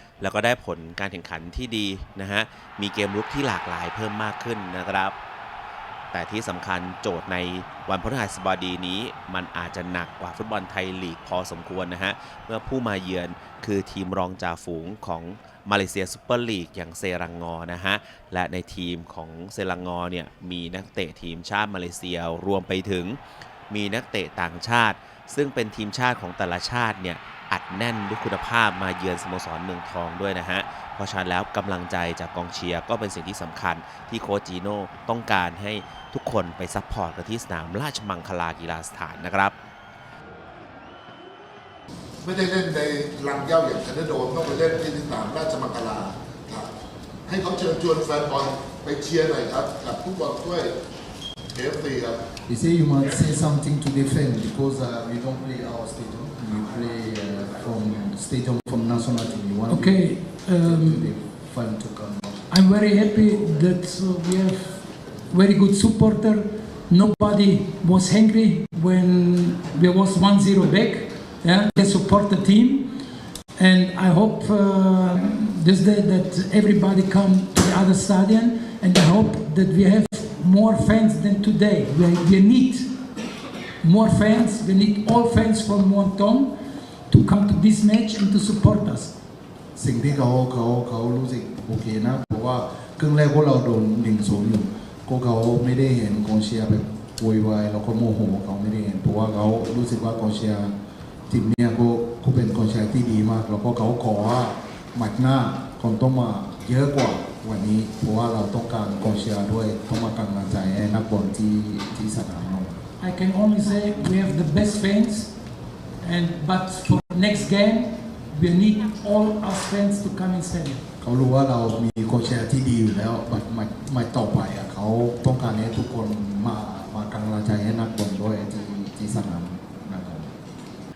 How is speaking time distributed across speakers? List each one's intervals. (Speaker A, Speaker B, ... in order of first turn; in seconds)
Speaker A: 0.2-5.2, 6.1-39.5
Speaker B: 42.2-46.7, 47.3-50.8, 51.5-52.3
Speaker C: 52.5-62.4, 89.8-100.7, 101.3-112.8, 121.0-130.6
Speaker D: 59.7-61.1, 62.5-73.0, 73.6-83.0, 83.8-86.6, 87.1-89.2, 113.0-115.4, 116.0-120.8